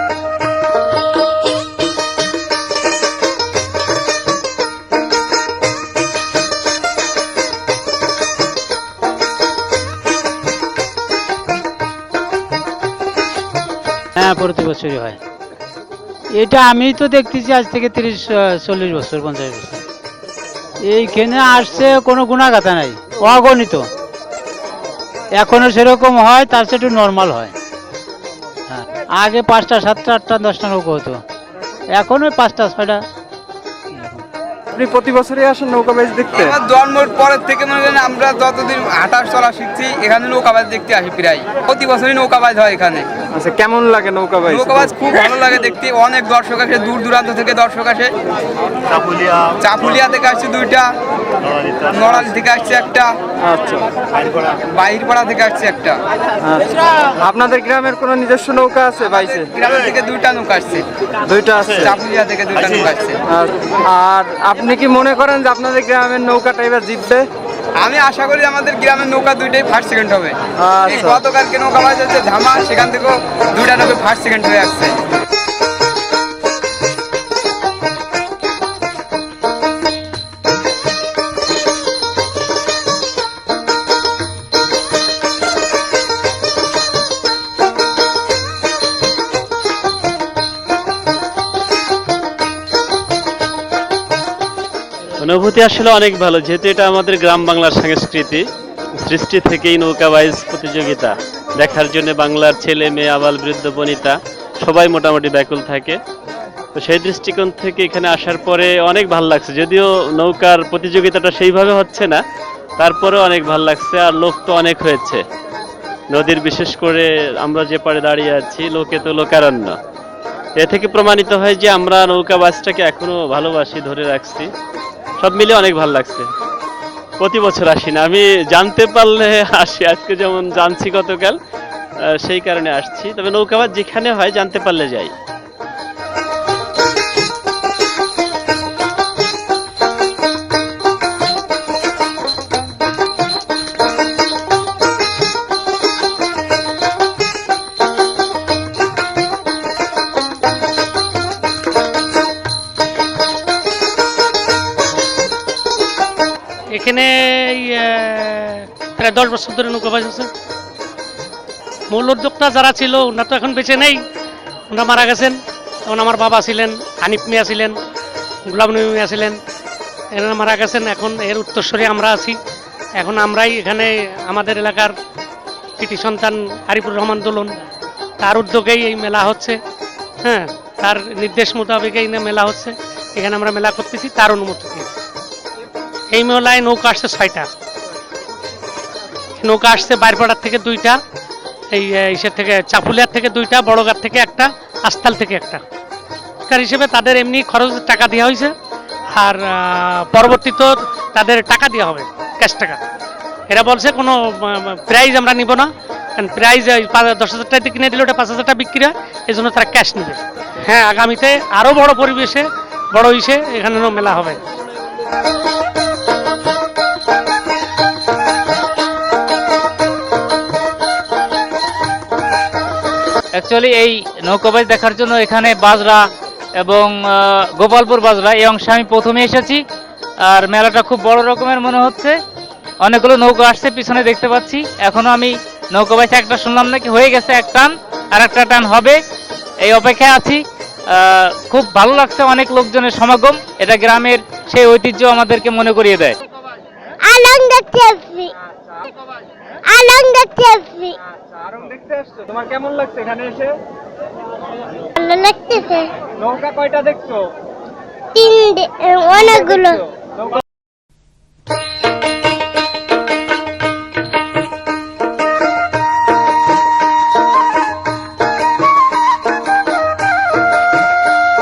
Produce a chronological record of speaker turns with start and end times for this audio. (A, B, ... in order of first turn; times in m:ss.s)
0:14.2-0:15.2 A
0:16.3-0:19.8 A
0:20.8-0:23.9 A
0:25.3-0:27.5 A
0:28.7-0:31.2 A
0:31.9-0:33.0 A
0:33.9-0:34.2 A
0:34.8-0:36.6 B
0:36.4-0:43.1 C
0:43.3-0:45.0 B
0:44.5-0:48.1 C
0:49.6-0:50.9 C
0:51.8-0:53.1 C
0:53.4-0:53.9 B
0:54.7-0:56.0 C
0:56.4-0:59.5 B
0:59.2-1:00.8 C
1:01.3-1:02.0 B
1:01.8-1:03.2 C
1:03.3-1:07.2 B
1:07.8-1:14.9 C
1:10.6-1:11.2 B
1:35.2-1:38.4 D
1:39.0-1:46.0 D
1:46.8-1:52.2 D
1:52.8-1:55.2 D
1:56.1-1:59.8 D
2:00.6-2:04.5 D
2:05.2-2:06.3 D
2:07.2-2:11.4 D
2:12.0-2:15.1 D
2:36.7-2:40.3 E
2:41.9-2:44.0 E
2:44.7-2:47.8 E
2:48.5-2:49.4 E
2:50.2-2:52.4 E
2:53.0-2:55.0 E
2:55.8-2:57.6 E
2:58.2-2:59.6 E
3:00.2-3:04.9 E
3:06.1-3:07.5 E
3:09.4-3:11.0 E
3:11.7-3:15.6 E
3:16.5-3:18.5 E
3:19.2-3:22.8 E
3:23.5-3:34.4 E
3:43.3-3:46.1 F
3:46.6-3:49.6 F
3:50.2-3:52.2 F
3:52.8-3:59.0 F
3:59.6-4:06.2 F
4:07.0-4:08.3 G
4:09.7-4:11.0 G
4:11.7-4:13.5 B
4:15.0-4:15.9 G
4:16.3-4:17.2 B
4:18.2-4:19.8 G